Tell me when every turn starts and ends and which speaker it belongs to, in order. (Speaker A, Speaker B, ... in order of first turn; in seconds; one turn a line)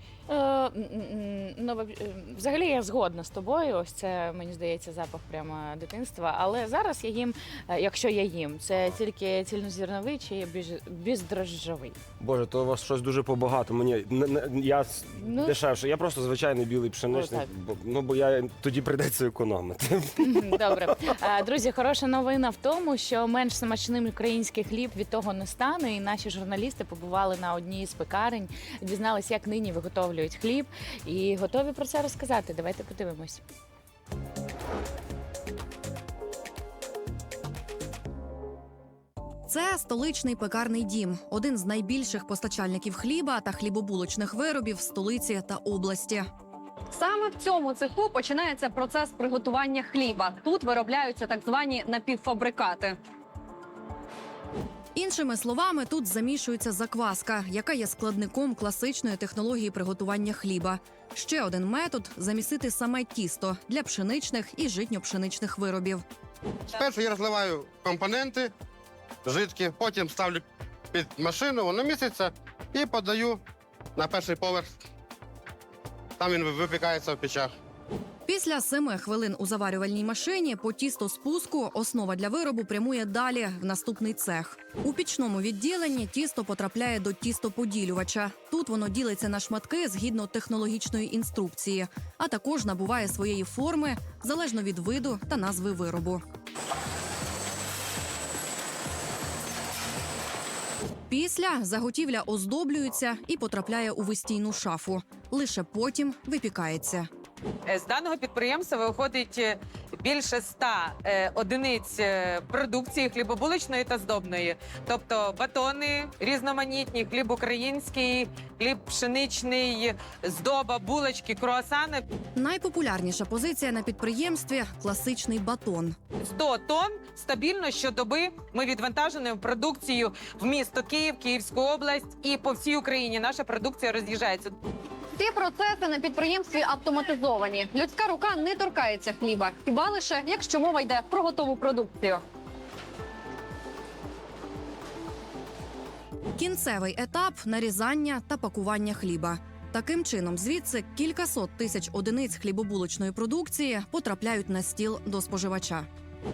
Speaker A: 0.3-12.0
Speaker B: 12.2-21.1
Speaker A: 15.2-15.6
Speaker A: 17.1-17.5
Speaker A: 20.2-33.4
Speaker C: 39.5-46.3
Speaker D: 46.9-53.0
Speaker C: 55.0-66.0
Speaker E: 66.7-68.5
Speaker E: 69.2-73.4
Speaker E: 74.0-74.7
Speaker E: 76.2-77.5
Speaker C: 78.3-96.2
Speaker C: 101.1-107.1
Speaker F: 107.7-122.0
Speaker C: 122.4-126.0
Speaker F: 126.2-134.6
Speaker D: 135.2-142.2
Speaker C: 146.4-155.9